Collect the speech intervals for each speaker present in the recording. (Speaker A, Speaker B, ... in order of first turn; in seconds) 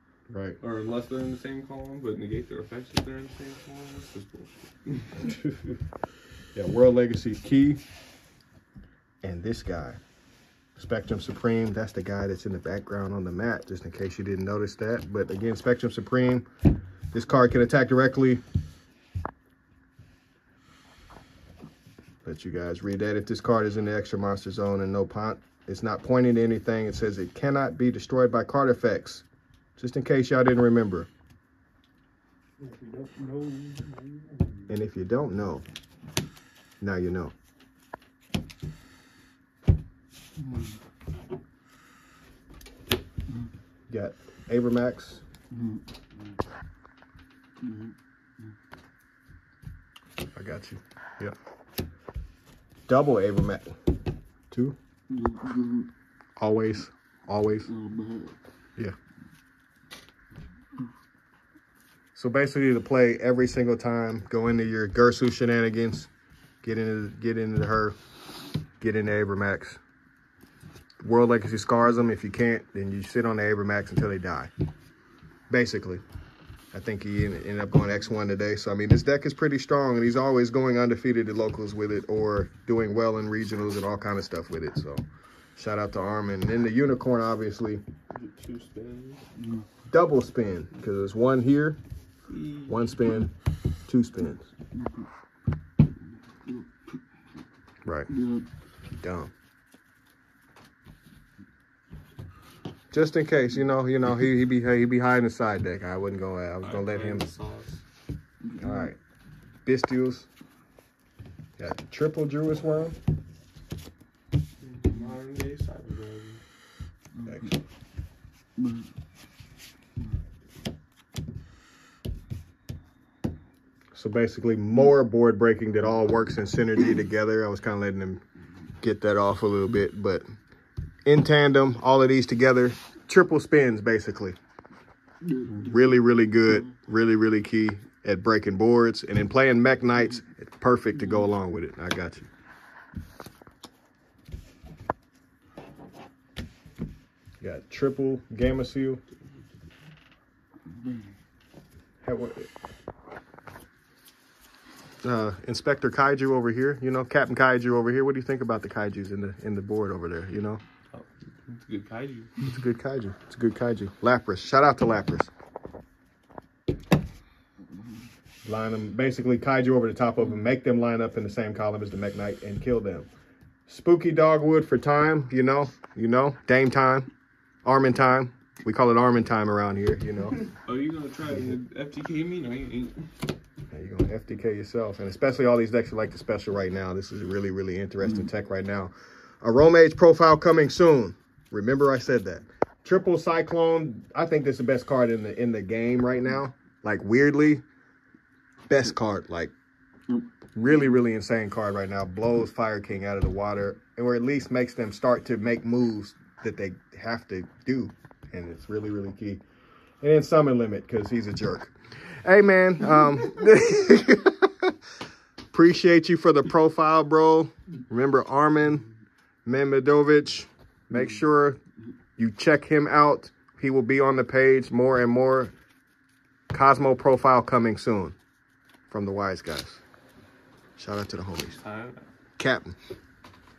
Speaker A: 0.3-0.6, 6.5-7.8, 9.2-10.0, 10.8-16.4, 17.1-18.4, 22.2-29.2, 29.8-31.1, 34.7-35.6, 36.8-37.3, 43.9-45.2, 50.4-51.3, 52.9-53.8, 54.5-54.8, 56.4-57.7, 62.1-66.1, 66.6-68.0, 68.8-69.8, 71.0-74.5, 75.5-76.0, 76.7-85.0, 85.5-87.8, 89.9-91.8, 92.7-93.3, 93.9-94.5, 97.8-98.2, 99.0-99.3, 102.9-107.3, 108.5-109.0, 109.6-110.3, 111.6-113.0, 117.2-117.5, 123.9-128.2, 128.8-130.2, 131.1-134.4, 135.5-142.3, 147.4-149.0, 152.0-152.5, 155.0-160.6, 162.4-165.3, 168.4-173.1, 173.7-177.1, 177.6-180.5, 183.7-197.6, 198.7-199.5, 200.5-209.4, 210.0-214.7, 215.5-218.8, 219.4-221.6, 222.2-225.5, 226.5-228.2, 228.9-229.8, 230.8-231.6, 232.4-232.7
Speaker B: 0.6-5.3, 32.8-34.1, 55.2-55.8, 58.0-58.3, 88.1-89.2, 92.3-93.0, 106.6-107.8, 114.6-116.4, 160.9-162.4, 180.6-183.1, 231.6-232.0